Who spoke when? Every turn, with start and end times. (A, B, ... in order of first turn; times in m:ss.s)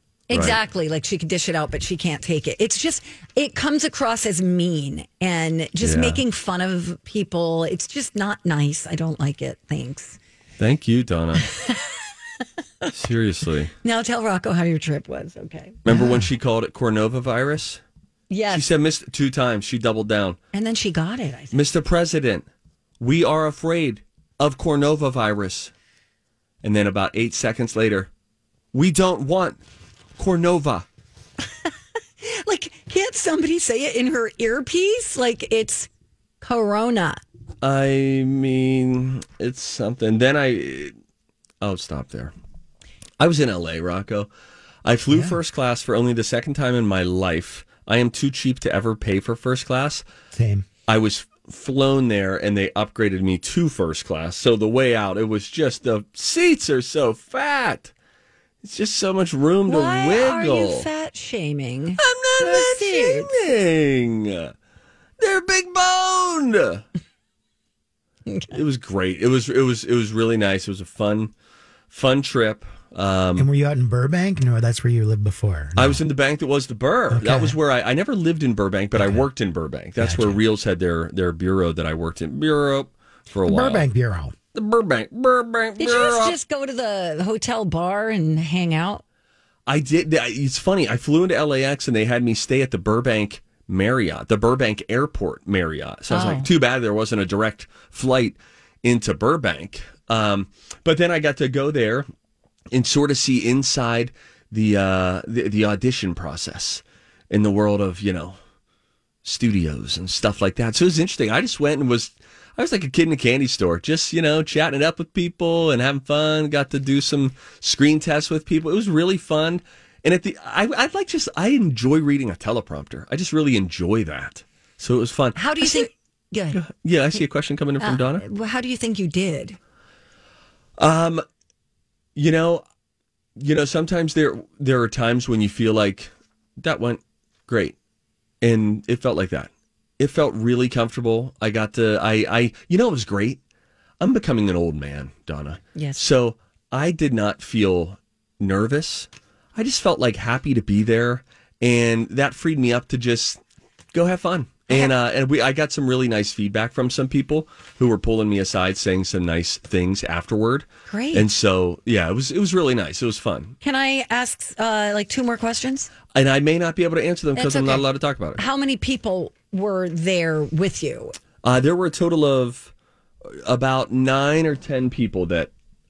0:00.3-0:10.2 A
0:00.3-0:00.6 B
0:05.8-0:06.2 B
0:10.6-0:11.5 B
0:11.4-0:12.9 A
0:12.9-0:13.7 B
0:13.8-0:15.8 A
0:15.8-0:17.8 B
0:15.9-0:16.2 C
0:18.3-0:18.7 A
0:18.5-0:20.4 B
0:20.5-0:21.6 A
0:21.5-0:22.4 B
0:23.0-0:25.7 B
0:26.6-0:28.1 B
0:28.7-0:29.6 B
0:30.2-0:30.8 B
0:32.2-0:35.9 A
0:36.4-0:37.2 A
0:37.6-0:40.9 B
0:41.6-0:42.3 B
0:43.2-0:44.3 B
0:44.8-0:50.0 B
0:45.1-0:45.4 C
0:50.3-0:50.7 C
0:50.9-0:57.9 B
0:58.6-1:00.9 B
0:59.7-1:03.3 A
1:02.0-1:04.5 B
1:05.2-1:06.8 B
1:08.3-1:08.5 A
1:08.5-1:11.3 B
1:11.9-1:13.5 B
1:13.4-1:16.0 C
1:15.8-1:23.8 B
1:17.1-1:17.6 C
1:18.9-1:19.3 C
1:20.0-1:20.4 C
1:23.4-1:24.4 C
1:24.5-1:26.4 B
1:25.8-1:29.0 A
1:29.7-1:42.0 B
1:36.1-1:36.5 A
1:42.7-1:48.4 B
1:49.2-2:05.9 B
2:05.4-2:06.6 A
2:06.5-2:08.2 B
2:07.8-2:09.6 A
2:10.8-2:11.2 B
2:12.2-2:12.6 B
2:13.4-2:17.7 B
2:18.4-2:23.4 B
2:24.0-2:33.4 B
2:25.7-2:26.0 A
2:33.9-2:43.6 B
2:40.9-2:41.3 A
2:43.6-2:45.9 A
2:46.1-2:48.4 B
2:47.4-2:47.8 A
2:48.4-2:51.1 A
2:51.4-2:52.7 B
2:53.3-2:55.5 B